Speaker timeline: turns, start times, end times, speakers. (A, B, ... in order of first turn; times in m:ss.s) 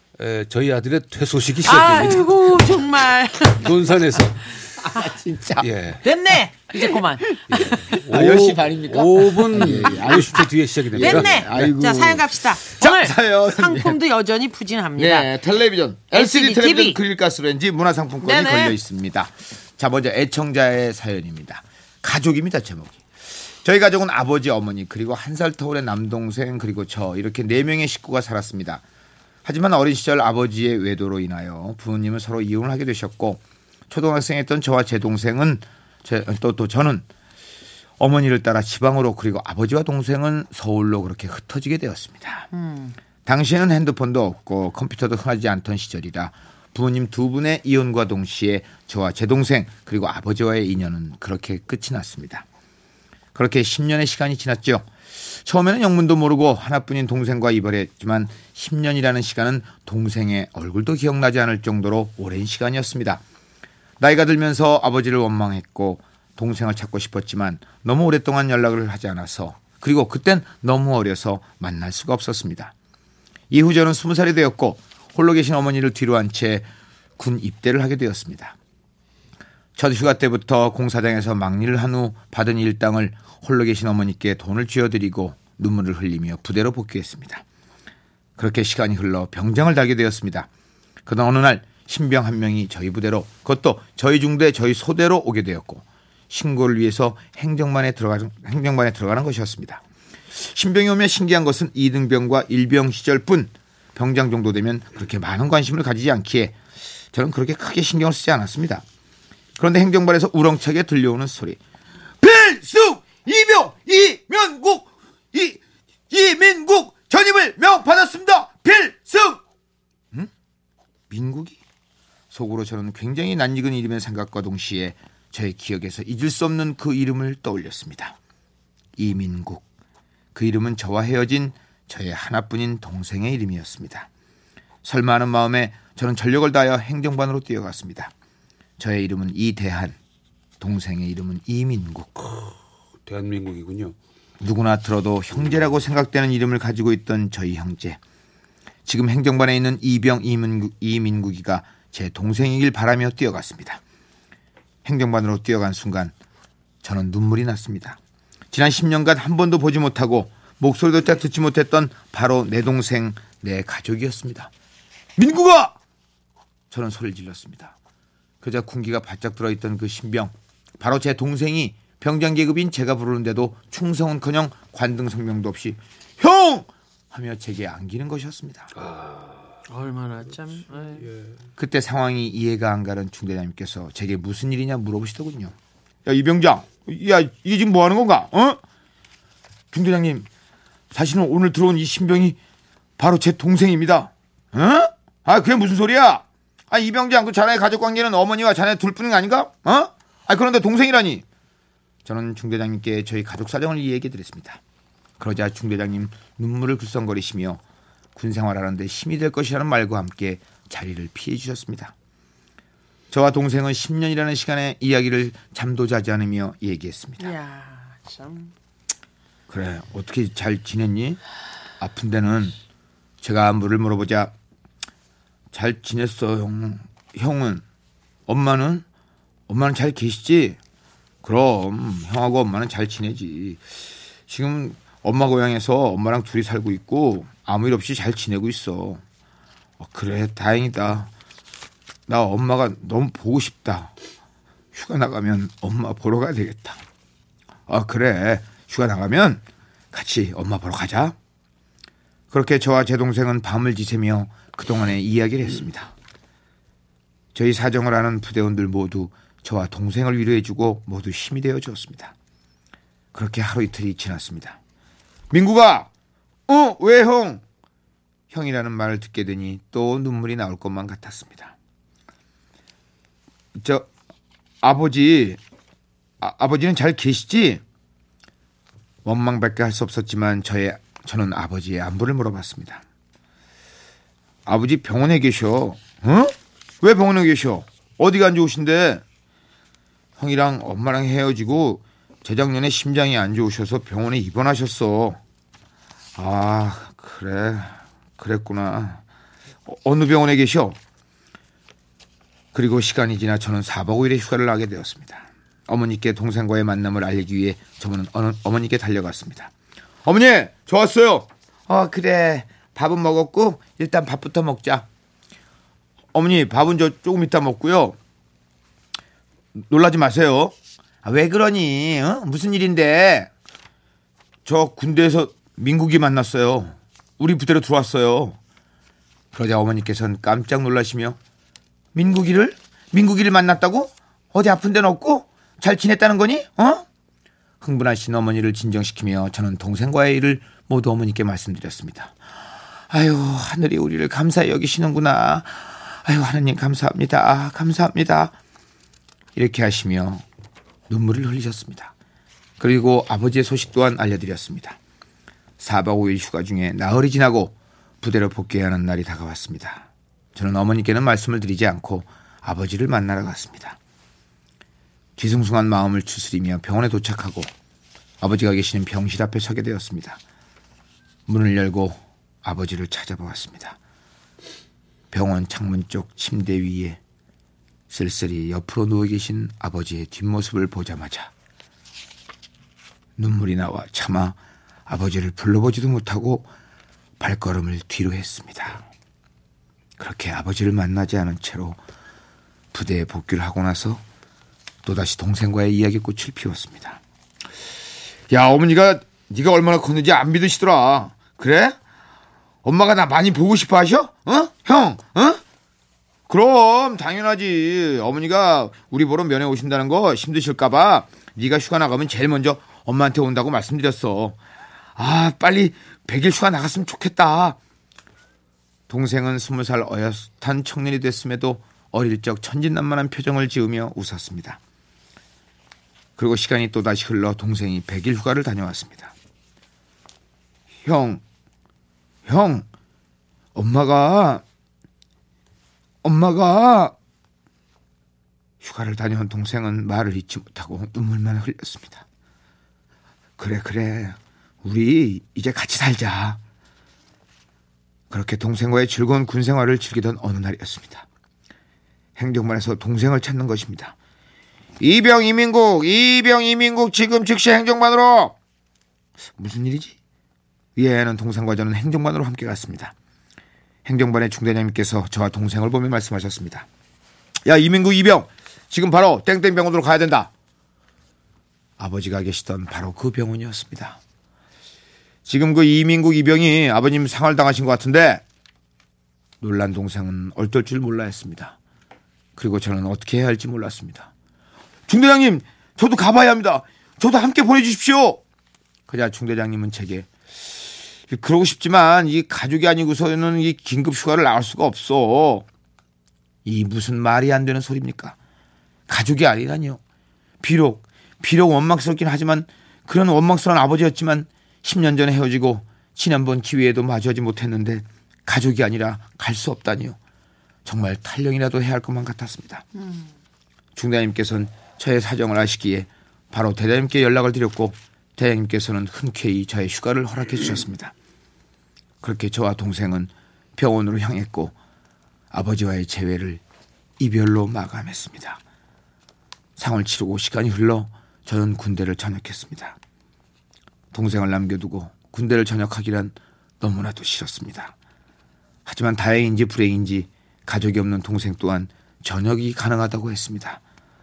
0:00.2-0:02.3 A
0:01.6-0:03.7 B
0:03.5-0:04.5 A
0:04.8-0:05.6 C
0:05.6-0:06.0 A
0:06.0-0:08.0 B
0:07.5-0:14.0 C
0:08.0-0:11.7 A
0:09.6-0:09.9 B
0:11.0-0:15.3 B
0:15.0-0:23.0 C
0:16.1-0:17.0 B
0:18.2-0:18.8 B
0:23.6-0:28.8 C
0:29.4-0:37.0 C
0:38.0-0:42.5 C
0:42.5-0:43.0 B
0:43.2-0:52.4 C
0:53.3-1:03.2 C
1:04.0-1:12.7 C
1:13.5-1:18.6 C
1:19.8-1:27.4 C
1:28.4-1:30.5 C
1:31.0-1:39.8 C
1:40.3-1:46.6 C
1:47.1-1:48.8 C
1:49.6-1:51.6 C
1:52.2-1:59.4 C
2:01.1-2:01.6 C
2:02.3-2:08.2 C
2:09.0-2:09.6 C
2:10.3-2:14.1 C
2:14.8-2:18.1 C
2:18.8-2:20.0 C
2:20.6-2:22.2 C
2:23.0-2:23.9 A
2:24.4-2:28.0 C
2:28.8-2:33.8 C
2:34.8-2:36.1 C
2:36.8-2:38.0 C
2:38.5-2:44.5 C
2:45.2-2:45.8 C
2:46.7-2:47.7 C
2:48.4-2:58.7 C
2:58.8-2:59.5 A
2:59.7-3:01.1 B
3:01.6-3:05.5 C
3:06.0-3:08.6 C
3:09.7-3:10.3 C
3:10.9-3:12.4 C
3:13.0-3:21.2 C
3:22.0-3:24.6 C
3:25.2-3:27.6 C
3:28.2-3:31.9 C
3:33.1-3:37.3 C
3:37.2-3:38.5 B
3:39.5-3:41.2 C
3:41.8-3:42.6 C
3:43.2-3:44.3 C
3:45.5-3:47.6 C
3:48.3-3:48.8 C
3:49.5-3:50.6 C
3:51.2-3:53.6 C
3:54.3-3:59.0 C
3:59.8-4:01.1 C
4:02.1-4:03.9 C
4:04.7-4:06.8 C
4:07.7-4:11.2 C
4:12.3-4:15.9 C
4:17.3-4:22.1 C
4:23.1-4:24.6 C
4:25.3-4:25.9 C
4:26.5-4:27.4 C
4:28.3-4:31.5 C
4:33.6-4:33.9 C
4:34.6-4:35.4 C
4:36.2-4:37.6 C
4:39.0-4:42.8 C
4:44.4-4:49.0 C
4:50.2-4:55.2 C
4:56.2-4:59.0 C
4:59.6-5:00.8 C
5:02.5-5:09.5 C
5:10.0-5:14.8 C
5:16.1-5:18.0 C
5:19.5-5:23.3 C
5:24.4-5:28.4 C
5:29.3-5:31.2 C
5:31.9-5:36.8 C
5:37.6-5:42.2 C
5:42.9-5:48.4 C
5:49.4-5:50.2 C
5:50.9-5:51.9 C
5:52.6-5:54.8 C
5:55.6-6:03.8 C
6:05.2-6:07.5 C
6:08.2-6:10.2 C
6:11.3-6:13.8 C
6:15.1-6:17.0 C
6:17.9-6:21.3 C
6:23.2-6:26.5 C
6:27.2-6:28.8 C
6:30.0-6:31.8 C
6:32.7-6:34.0 C
6:34.8-6:37.0 C
6:38.3-6:41.8 C
6:42.6-6:45.4 C
6:46.3-6:54.4 C
6:55.0-6:57.6 C
6:58.9-7:04.6 C
7:06.2-7:09.1 C
7:10.8-7:11.2 C
7:12.2-7:12.6 C
7:13.5-7:14.4 C
7:16.0-7:16.9 C
7:18.6-7:22.0 C
7:23.4-7:26.4 C
7:28.1-7:31.0 C
7:32.2-7:33.9 C
7:34.8-7:38.4 C
7:39.4-7:40.0 C
7:40.8-7:42.9 C
7:43.8-7:46.7 C
7:47.4-7:50.3 C
7:51.8-7:54.0 C
7:55.2-7:58.2 C
7:59.4-8:01.6 C
8:02.4-8:04.1 C
8:04.9-8:08.2 C
8:08.9-8:15.4 C
8:16.4-8:18.2 C
8:18.9-8:19.8 C
8:20.4-8:30.0 C
8:30.6-8:32.6 C
8:33.8-8:40.9 C
8:42.0-8:44.5 C
8:45.3-8:46.4 C
8:47.0-8:48.4 C
8:49.6-8:52.8 C
8:53.9-8:57.7 C
8:58.6-9:03.6 C